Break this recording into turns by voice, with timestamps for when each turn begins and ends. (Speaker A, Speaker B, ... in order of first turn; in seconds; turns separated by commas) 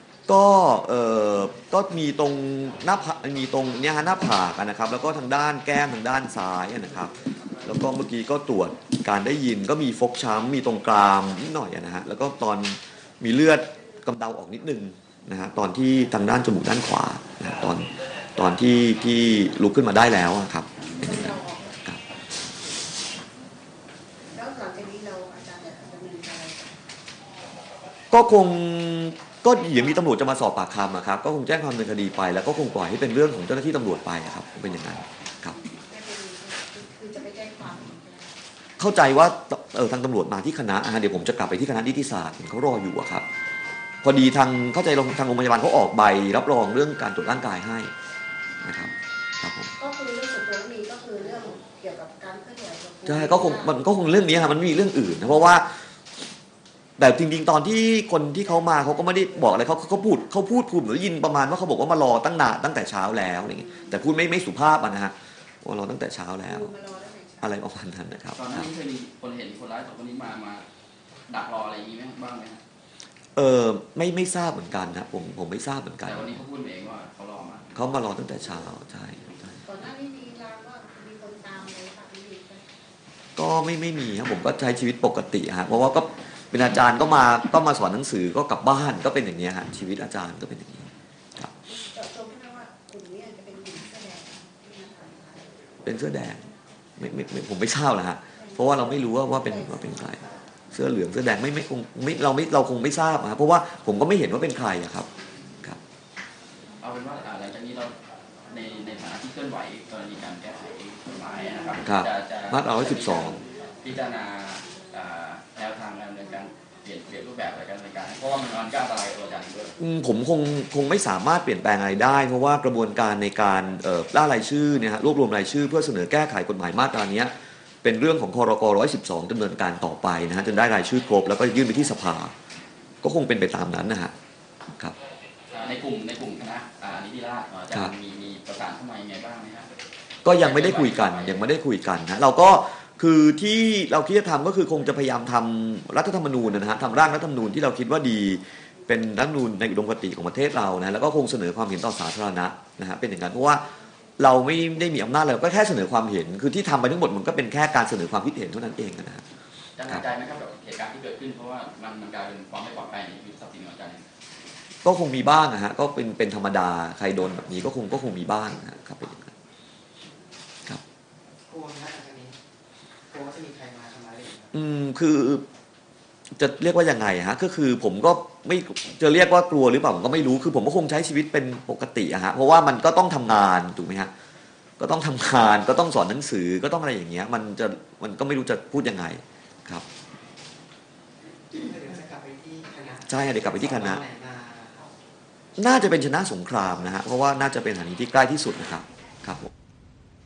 Speaker A: 0.3-21.3, Speaker B: 21.0-21.8, Speaker B: 24.3-26.8, Speaker A: 28.1-35.6, Speaker B: 35.8-38.4, Speaker A: 38.8-43.2, Speaker A: 44.0-47.9, Speaker A: 48.6-49.7, Speaker B: 49.8-53.8, Speaker A: 53.1-55.8, Speaker A: 57.0-66.7, Speaker B: 66.5-67.6, Speaker A: 67.4-68.7, Speaker C: 68.4-70.7, Speaker C: 71.3-72.6, Speaker A: 73.4-76.4, Speaker C: 76.0-77.7, Speaker A: 77.7-79.6, Speaker B: 79.6-82.7, Speaker A: 83.4-91.5, Speaker B: 91.7-95.6, Speaker A: 95.8-96.4, Speaker A: 97.0-105.1, Speaker B: 98.3-100.2, Speaker C: 106.8-107.9, Speaker C: 108.5-119.8, Speaker A: 111.8-113.4, Speaker A: 119.8-132.3, Speaker A: 133.0-134.1, Speaker C: 135.5-139.7, Speaker A: 140.2-153.7, Speaker C: 140.3-141.4, Speaker A: 154.2-159.2, Speaker C: 159.8-164.0, Speaker A: 164.8-169.3, Speaker D: 171.5-172.4, Speaker D: 173.1-174.5, Speaker A: 174.5-175.5, Speaker A: 176.4-184.1, Speaker A: 184.8-189.8, Speaker D: 191.5-194.9, Speaker A: 193.1-194.0, Speaker A: 195.6-199.5